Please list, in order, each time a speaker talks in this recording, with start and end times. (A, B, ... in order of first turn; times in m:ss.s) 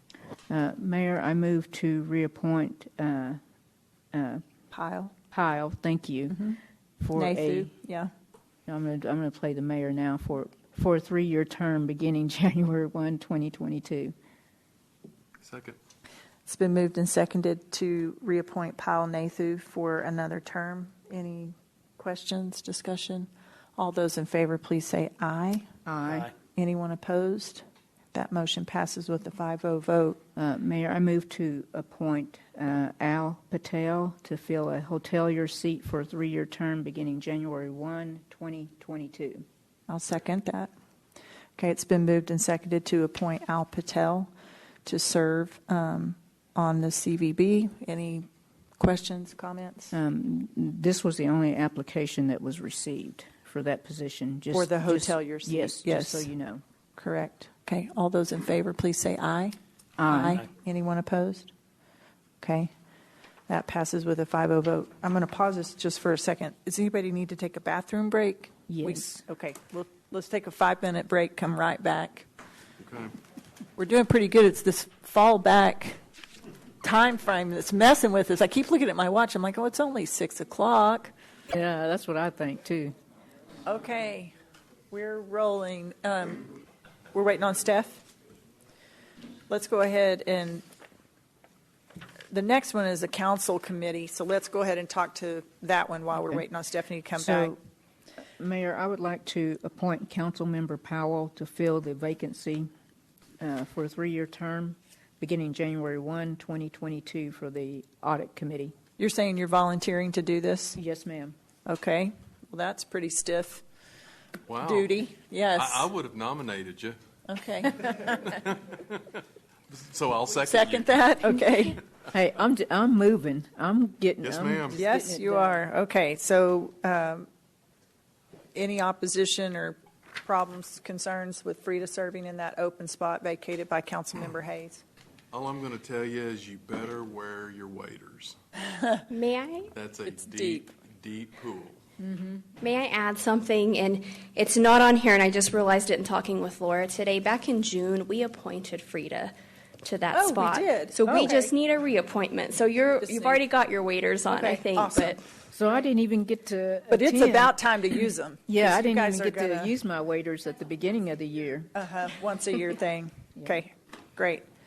0:00.5-0:03.4 A
0:04.1-0:04.4 A
0:04.7-0:05.1 B
0:05.3-0:07.7 A
0:07.2-0:08.1 B
0:08.7-0:14.1 A
0:15.4-0:15.8 C
0:16.5-0:25.7 B
0:25.9-0:26.3 A
0:26.6-0:30.2 B
0:30.4-0:39.4 A
0:39.9-0:40.7 B
0:41.6-0:44.3 B
0:44.8-0:48.3 B
0:48.8-0:49.9 B
0:49.9-0:56.6 A
0:54.5-0:56.3 B
0:57.0-1:01.5 B
1:00.0-1:00.4 A
1:02.4-1:02.7 B
1:03.5-1:12.3 B
1:08.7-1:09.2 A
1:12.8-1:13.2 C
1:13.8-1:16.0 B
1:16.8-1:21.1 B
1:21.5-1:22.9 A
1:23.7-1:24.3 B
1:24.9-1:26.6 B
1:27.1-1:28.0 B
1:29.5-1:30.6 B
1:32.3-1:37.6 B
1:37.2-1:37.6 A
1:38.4-1:42.7 A
1:43.4-1:48.8 A
1:49.0-1:50.8 B
1:50.8-1:51.4 A
1:51.7-1:53.6 B
1:54.5-1:55.0 C
1:54.6-1:55.9 B
1:55.5-1:57.0 C
1:57.3-1:58.3 B
1:57.9-1:59.2 C
1:59.7-2:01.0 C
2:00.4-2:01.8 B
2:02.1-2:05.6 A
2:04.2-2:04.8 C
2:04.7-2:07.3 B
2:08.6-2:14.8 B
2:15.3-2:18.4 C
2:19.1-2:19.7 D
2:19.7-2:21.8 C
2:20.1-2:20.7 B
2:22.0-2:22.4 A
2:22.6-2:35.2 D
2:30.1-2:31.0 B
2:31.0-2:31.5 A
2:33.0-2:33.4 B
2:34.3-2:35.2 B
2:35.5-2:37.6 A
2:36.9-2:39.7 B
2:38.5-2:41.7 A
2:41.7-2:44.4 B
2:43.4-2:43.6 A